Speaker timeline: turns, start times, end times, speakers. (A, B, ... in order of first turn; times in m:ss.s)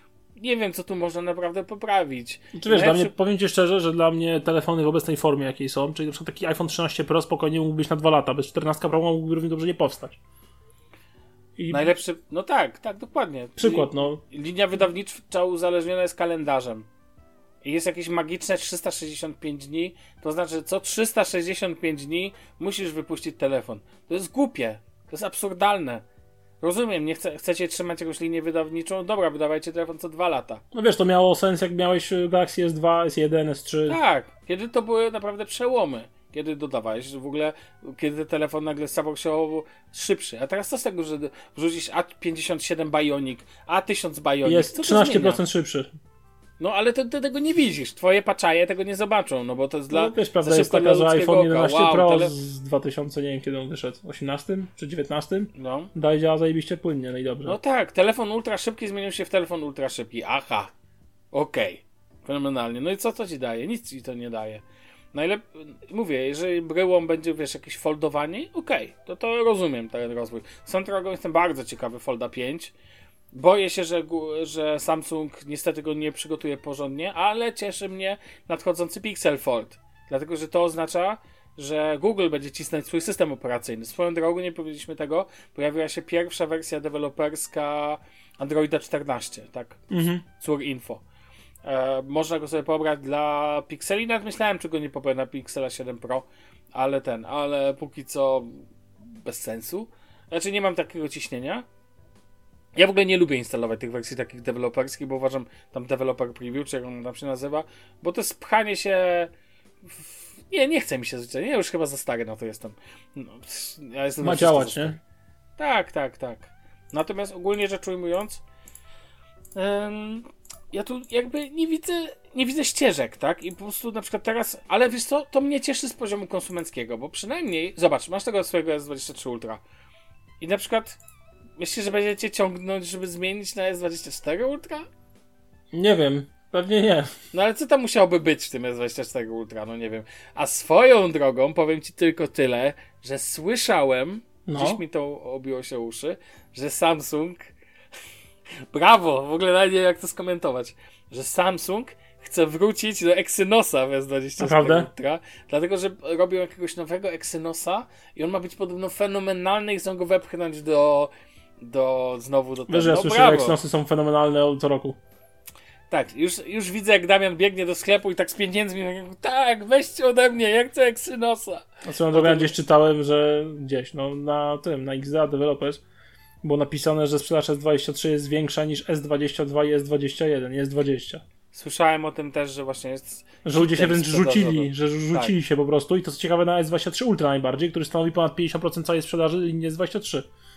0:00.4-0:03.1 A
0:02.5-0:10.2 B
0:11.6-0:11.9 B
0:11.7-0:16.9 A
0:13.6-0:14.2 B
0:17.6-0:26.0 A
0:26.6-0:30.6 A
0:30.7-0:34.0 B
0:33.9-0:45.4 A
0:44.4-0:45.9 B
0:46.6-0:52.3 A
0:49.9-0:57.6 B
0:55.5-0:55.9 A
0:57.4-1:00.7 A
1:01.3-1:04.6 A
1:05.1-1:12.7 A
1:13.3-1:31.0 A
1:29.9-1:30.2 B
1:31.6-1:41.6 A
1:42.7-1:49.3 A
1:49.8-1:55.0 A
1:54.2-1:55.0 B
1:55.6-1:58.4 A
1:59.5-2:09.6 A
2:10.4-2:11.0 A
2:11.6-2:14.9 A
2:15.7-2:17.1 B
2:17.3-2:27.5 A
2:24.4-2:24.8 B
2:28.7-2:43.6 A
2:34.4-2:34.9 B
2:42.7-2:45.0 B
2:45.9-2:52.5 A
2:51.8-2:55.8 B
2:56.4-3:01.2 B
3:01.5-3:05.3 A
3:03.4-3:10.3 B